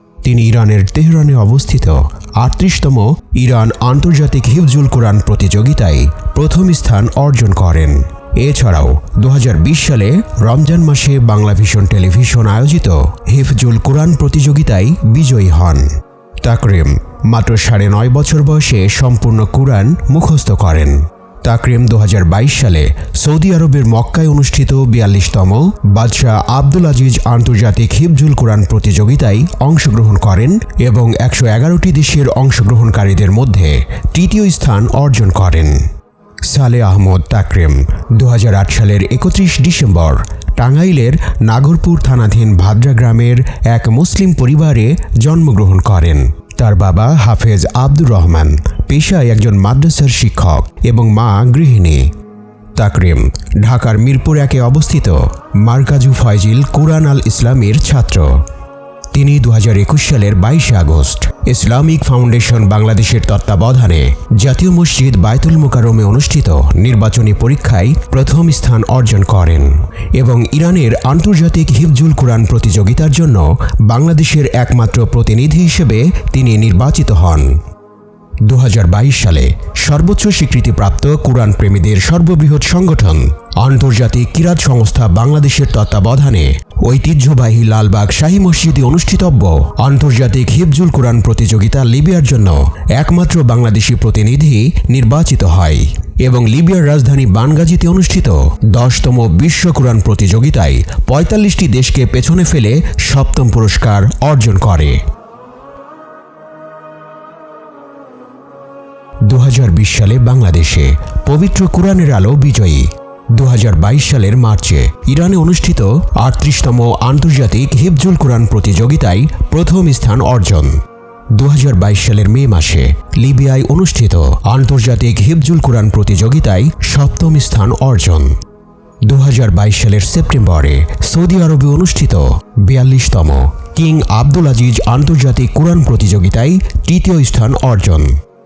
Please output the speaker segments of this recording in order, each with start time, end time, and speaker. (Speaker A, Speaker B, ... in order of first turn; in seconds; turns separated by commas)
Speaker A: 0.2-15.9, Speaker A: 16.4-35.8, Speaker A: 36.4-52.1, Speaker A: 52.8-58.4, Speaker A: 59.1-77.5, Speaker A: 78.4-105.0, Speaker A: 109.2-120.8, Speaker A: 121.3-128.3, Speaker A: 129.1-138.1